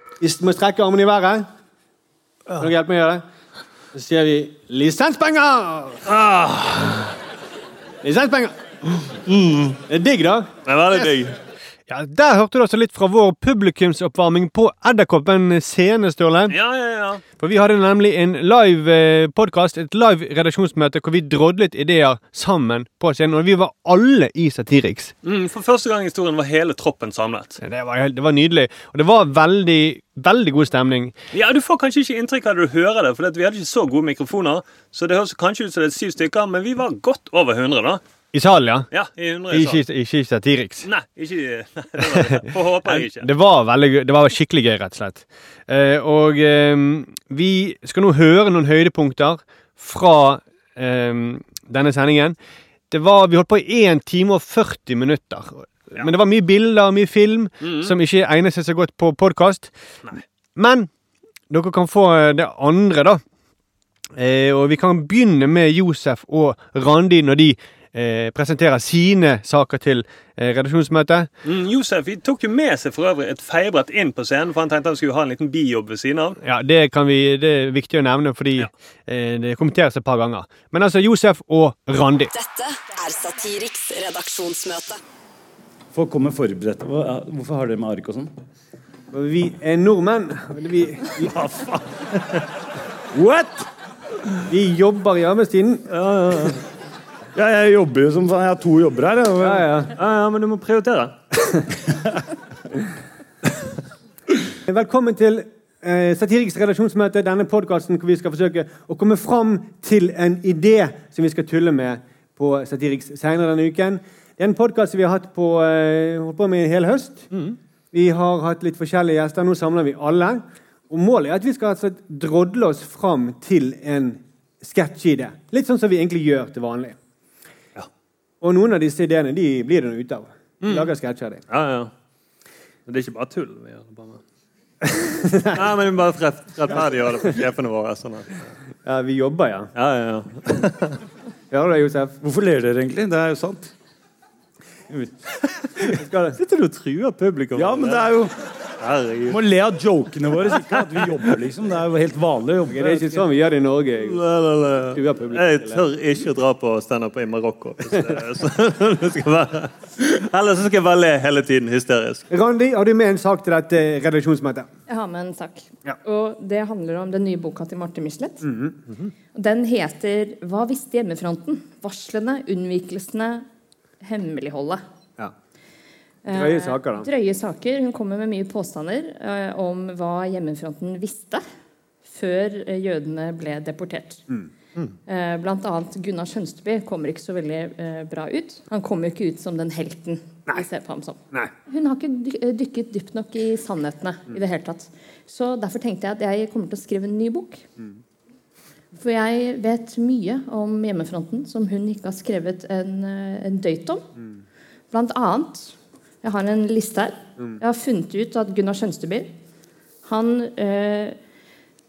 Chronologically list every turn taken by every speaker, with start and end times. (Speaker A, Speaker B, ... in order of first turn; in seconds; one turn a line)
Speaker A: 0.2-1.5
Speaker A: 2.6-3.2
Speaker A: 3.9-6.0
Speaker B: 6.0-7.1
Speaker A: 8.0-8.5
Speaker B: 9.2-9.8
Speaker A: 9.9-10.5
Speaker B: 10.7-11.3
Speaker A: 11.9-16.5
Speaker B: 16.5-17.2
Speaker A: 17.4-25.1
Speaker B: 25.2-27.6
Speaker A: 27.6-31.1
Speaker B: 31.3-38.0
Speaker A: 38.3-38.9
Speaker B: 38.9-39.8
Speaker A: 39.5-40.9
Speaker B: 40.8-43.3
Speaker A: 42.8-52.4
Speaker A: 52.9-59.7
Speaker B: 57.6-57.9
Speaker A: 60.5-60.9
Speaker A: 61.5-63.2
Speaker A: 64.2-71.3
Speaker B: 71.4-76.4
Speaker A: 76.4-82.3
Speaker C: 82.3-85.0
Speaker D: 85.9-88.3
Speaker A: 89.1-91.3
Speaker D: 91.2-92.0
Speaker D: 93.1-93.7
Speaker A: 94.5-95.8
Speaker B: 95.9-96.6
Speaker D: 97.3-99.7
Speaker A: 99.4-99.9
Speaker B: 100.0-101.1
Speaker A: 104.7-127.0
Speaker A: 128.4-131.4
Speaker B: 130.6-130.9
Speaker B: 131.5-131.9
Speaker B: 132.9-134.2
Speaker A: 134.8-135.6
Speaker B: 135.5-138.4
Speaker A: 138.8-139.7
Speaker B: 139.7-141.0
Speaker A: 141.5-142.2
Speaker D: 142.2-143.7
Speaker A: 145.9-146.4
Speaker B: 146.4-148.1
Speaker D: 147.6-148.3
Speaker B: 148.8-149.4
Speaker D: 149.3-153.2
Speaker A: 152.7-154.2
Speaker B: 154.0-162.2
Speaker A: 154.9-155.8
Speaker A: 162.3-164.7
Speaker E: 164.9-168.4
Speaker A: 168.4-169.1
Speaker E: 169.3-173.4
Speaker E: 174.0-174.8
Speaker E: 176.2-181.4
Speaker A: 176.3-177.1
Speaker E: 182.1-184.2
Speaker A: 184.3-184.9
Speaker E: 185.1-197.6
Speaker E: 198.9-204.0
Speaker E: 204.9-209.3
Speaker E: 210.0-211.2